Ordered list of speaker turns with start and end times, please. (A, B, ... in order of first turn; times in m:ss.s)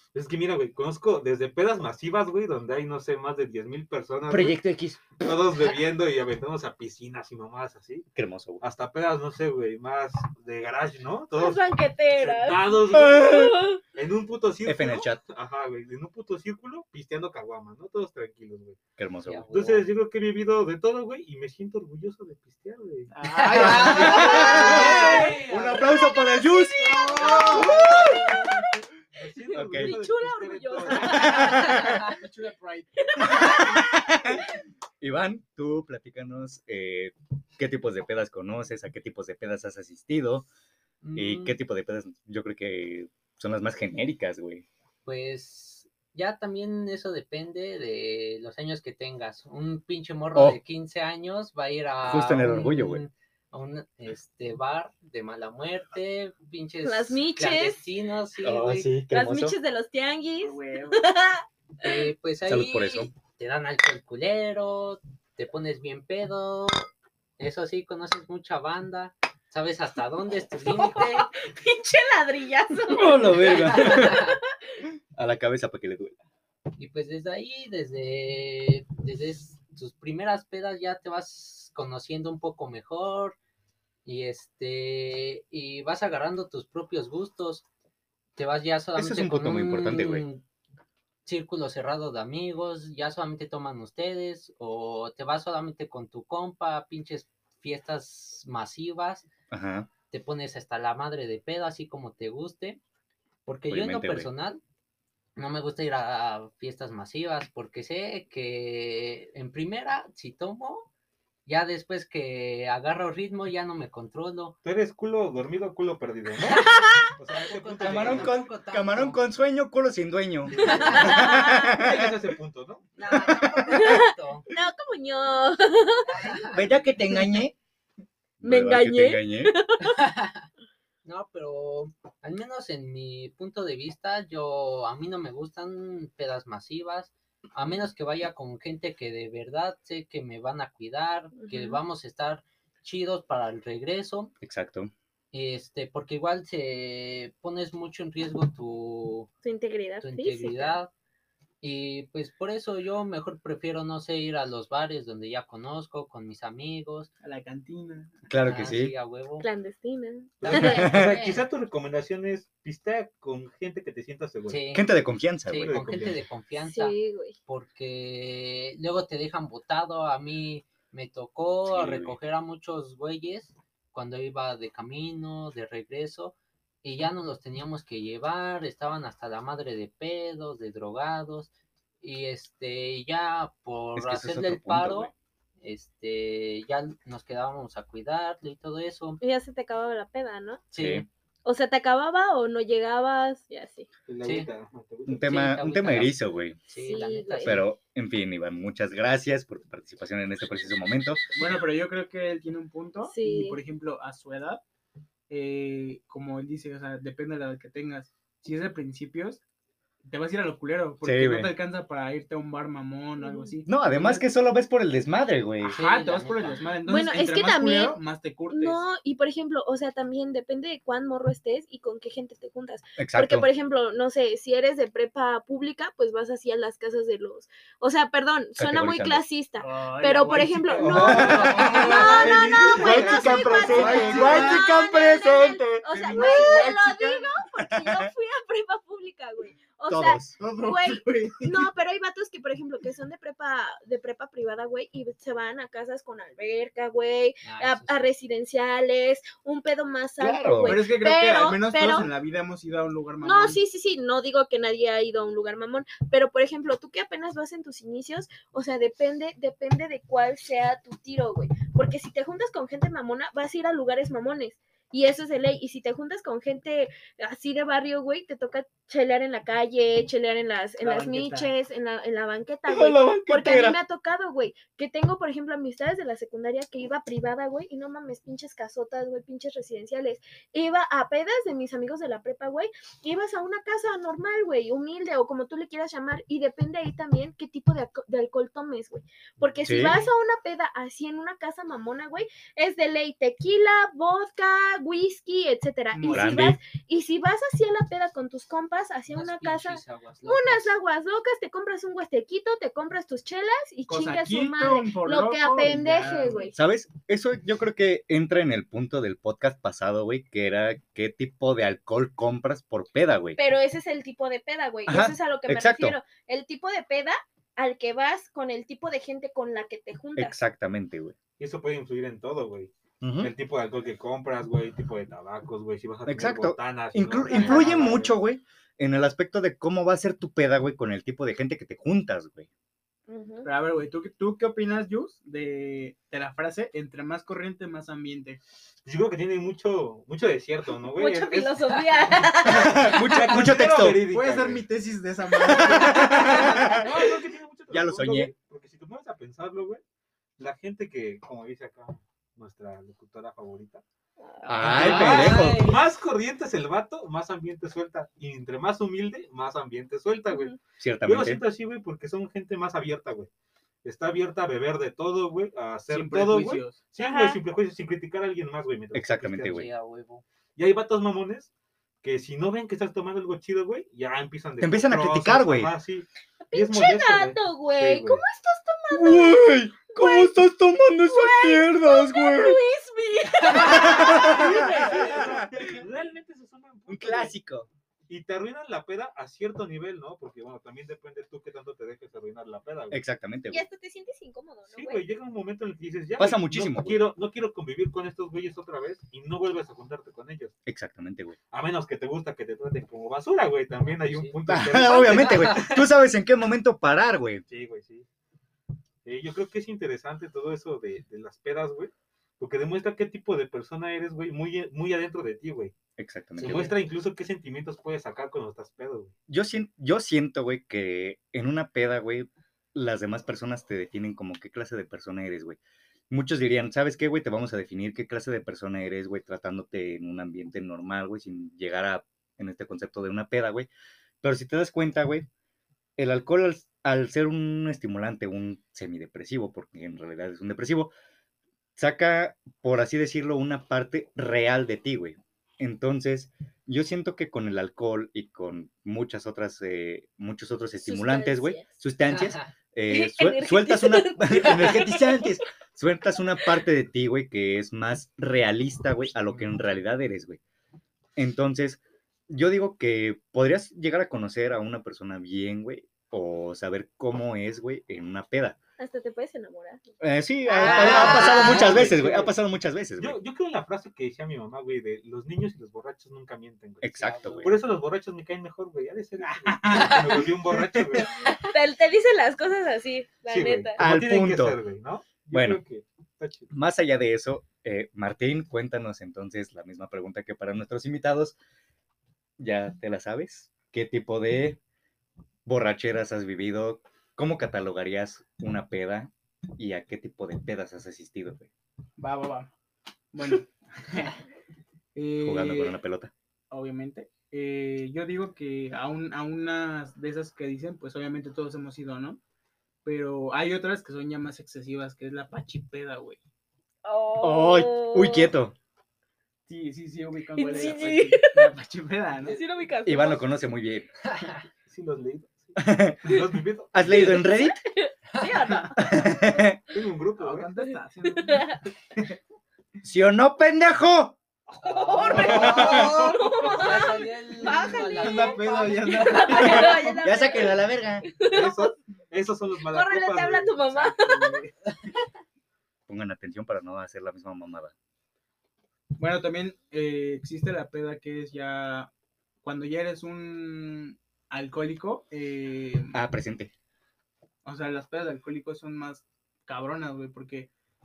0:00.1-0:04.6 A
0:04.3-0:05.0 B
0:05.2-0:08.1 A
0:08.2-0:08.6 B
0:08.6-0:18.8 A
0:11.3-0:13.8 C
0:12.9-0:13.5 B
0:14.6-0:15.2 B
0:19.0-0:19.5 B
0:19.2-0:19.9 D
0:19.5-0:23.1 A
0:23.1-0:25.8 E
0:23.3-0:25.2 D
0:23.5-0:28.2 B
0:24.0-0:28.7 C
0:24.2-0:25.9 A
0:27.1-0:28.1 A
0:27.2-0:28.6 E
0:27.2-0:27.6 D
0:29.2-0:31.4 A
0:29.5-0:30.0 B
0:29.5-0:32.1 C
0:30.9-0:34.4 E
0:31.0-0:32.0 B
0:33.0-0:33.9 C
0:33.4-0:34.4 B
0:35.0-0:40.5 B
0:41.0-0:41.6 D
0:41.2-0:44.6 B
0:45.0-0:58.9 D
0:50.4-0:50.6 B
0:52.1-0:53.0 B
0:56.8-0:57.9 C
0:58.4-0:59.6 B
0:59.1-1:02.0 C
1:00.4-1:01.0 E
1:01.8-1:11.3 D
1:02.5-1:03.1 B
1:10.6-1:14.4 C
1:12.9-1:14.2 B
1:13.1-1:14.4 D
1:15.2-1:16.2 B
1:16.8-1:23.4 D
1:24.0-1:27.6 D
1:28.4-1:30.4 D
1:29.0-1:30.2 B
1:31.2-1:39.3 D
1:39.5-1:39.9 B
1:40.1-1:42.8 D
1:43.5-1:44.6 D
1:43.7-1:44.3 B
1:45.4-1:50.9 D
1:51.5-1:54.6 D
1:54.6-1:58.4 A
1:56.5-1:59.2 D
1:57.8-2:02.2 B
2:00.5-2:02.9 A
2:00.6-2:01.2 D
2:00.6-2:01.7 C
2:03.0-2:04.5 D
2:03.7-2:06.4 C
2:06.1-2:06.7 D
2:06.4-2:07.6 B
2:08.4-2:09.5 B
2:08.4-2:10.0 C
2:09.8-2:10.5 D
2:11.0-2:24.3 D
2:21.4-2:21.8 C
2:24.4-2:24.9 B
2:25.3-2:29.3 D
2:29.4-2:30.8 C
2:30.0-2:30.9 D
2:31.6-2:37.1 D
2:37.2-2:38.2 E
2:38.3-2:38.9 B
2:38.4-2:39.5 D
2:39.4-2:40.9 C
2:40.4-2:44.7 A
2:40.4-2:41.5 D
2:40.5-2:41.2 B
2:44.5-2:44.9 D
2:44.7-2:45.8 B
2:45.5-3:01.5 D
2:45.6-2:46.2 A
2:46.6-2:47.4 C
2:51.7-2:52.2 B
3:02.0-3:09.2 D
3:04.0-3:05.1 B
3:09.2-3:10.7 C
3:10.7-3:11.1 D
3:10.8-3:11.1 B
3:11.4-3:13.9 C
3:14.1-3:15.3 A
3:14.2-3:14.5 D
3:15.1-3:16.6 B
3:15.2-3:17.6 D
3:16.7-3:17.6 C
3:17.4-3:21.2 B
3:21.4-3:24.6 E
3:23.1-3:23.6 C
3:25.3-3:29.4 E
3:30.0-3:34.3 E
3:31.0-3:31.5 B
3:33.2-3:33.6 C
3:33.7-3:35.8 B
3:35.6-3:38.8 E
3:35.7-3:36.8 D
3:36.9-3:38.0 C
3:38.5-4:12.1 C
3:43.0-3:43.5 B
3:48.6-3:49.2 B
3:49.6-3:54.7 E
3:50.8-3:56.6 B
3:51.1-3:54.4 A
3:55.8-3:57.3 E
3:57.6-3:58.1 B
3:59.9-4:00.3 B
4:00.4-4:01.6 E
4:07.4-4:08.1 D
4:10.2-4:10.8 B
4:10.6-4:13.6 E
4:13.2-5:06.6 C
4:30.8-4:31.5 E
4:32.7-4:33.8 B
4:49.4-4:49.9 A
4:49.7-4:50.0 B
4:55.9-4:56.5 E
4:56.1-4:56.6 B
4:59.1-5:00.7 D
5:03.9-5:06.5 E
5:06.6-5:13.4 B
5:13.4-5:20.3 C
5:14.9-5:16.0 B
5:20.2-5:21.2 B
5:21.4-5:28.2 A
5:23.0-5:23.3 B
5:26.1-5:32.5 B
5:27.3-5:27.8 C
5:33.1-5:33.5 C
5:33.4-5:38.4 E
5:38.8-5:41.6 A
5:41.0-5:43.0 C
5:42.4-5:44.0 B
5:42.4-5:44.7 A
5:44.1-5:46.9 E
5:45.5-5:46.9 C
5:45.5-5:46.8 B
5:46.4-5:49.8 A
5:47.7-5:48.3 B
5:50.4-5:53.8 A
5:54.2-5:54.7 C
5:54.5-5:55.7 B
5:54.6-5:55.8 D
5:54.6-6:03.3 A
5:54.8-5:55.2 E
6:00.3-6:00.6 C
6:00.8-6:01.4 B
6:03.8-6:09.7 A
6:05.9-6:06.8 E
6:07.0-6:07.4 C
6:08.9-6:09.7 B
6:09.4-6:10.2 D
6:10.6-6:11.5 A
6:12.0-6:18.2 A
6:14.6-6:15.7 B
6:16.5-6:25.4 C
6:18.9-6:22.6 B
6:23.5-6:25.8 B
6:23.8-6:27.4 A
6:26.9-6:27.7 B
6:28.1-6:33.0 A
6:32.9-6:33.7 B
6:33.5-6:35.0 C
6:34.7-6:40.5 A
6:36.2-6:37.0 B
6:40.7-6:41.4 B
6:41.5-6:45.6 A
6:44.0-6:45.8 D
6:44.5-6:47.4 B
6:47.5-6:48.1 A
6:49.0-6:55.7 A
6:56.0-6:56.7 B
6:56.4-6:56.7 D
6:56.4-6:59.1 A
6:59.3-7:05.6 B
7:06.1-7:13.7 B
7:14.2-7:15.3 B
7:16.0-7:20.9 B
7:21.8-7:40.4 B
7:30.8-7:31.7 C
7:32.1-7:32.5 D
7:32.9-7:35.4 C
7:41.2-7:48.6 B
7:48.8-7:49.8 C
7:50.0-7:53.2 B
7:50.5-7:51.5 C
7:50.6-7:51.9 D
7:50.7-7:52.4 A
7:53.0-8:01.2 A
7:56.8-7:57.5 B
7:56.9-7:57.6 D
7:59.2-8:01.1 E
7:59.8-8:00.3 D
8:01.2-8:03.8 C
8:03.3-8:06.5 A
8:03.8-8:04.6 B
8:05.3-8:05.6 B
8:06.5-8:11.4 B
8:12.4-8:14.6 B
8:15.5-8:21.5 B
8:22.0-8:22.5 E
8:23.1-8:24.2 E
8:25.0-8:25.8 E
8:25.2-8:26.1 B
8:26.5-8:32.2 E
8:32.8-8:36.2 E
8:36.8-8:38.3 C
8:37.2-8:38.6 B
8:39.5-8:42.4 E
8:40.4-8:41.5 C
8:42.2-8:43.2 C
8:42.9-8:43.9 B
8:44.1-8:44.4 D
8:44.7-8:47.2 A
8:45.6-8:46.2 B
8:46.7-8:47.6 B
8:47.2-8:49.2 C
8:48.8-8:49.6 B
8:49.7-8:50.5 A
8:50.2-8:52.2 E
8:51.1-8:51.6 C
8:52.8-8:54.2 B
8:54.6-9:01.8 C
8:54.7-8:59.7 D
8:55.1-9:00.0 E
8:55.2-8:55.6 A
8:55.4-8:55.6 B
8:59.6-9:01.1 B
9:01.3-9:03.6 A
9:02.7-9:04.4 C
9:03.7-9:04.7 E
9:05.9-9:07.7 B
9:09.0-9:11.9 E
9:12.4-9:16.0 E
9:15.9-9:16.5 B
9:17.4-9:20.5 E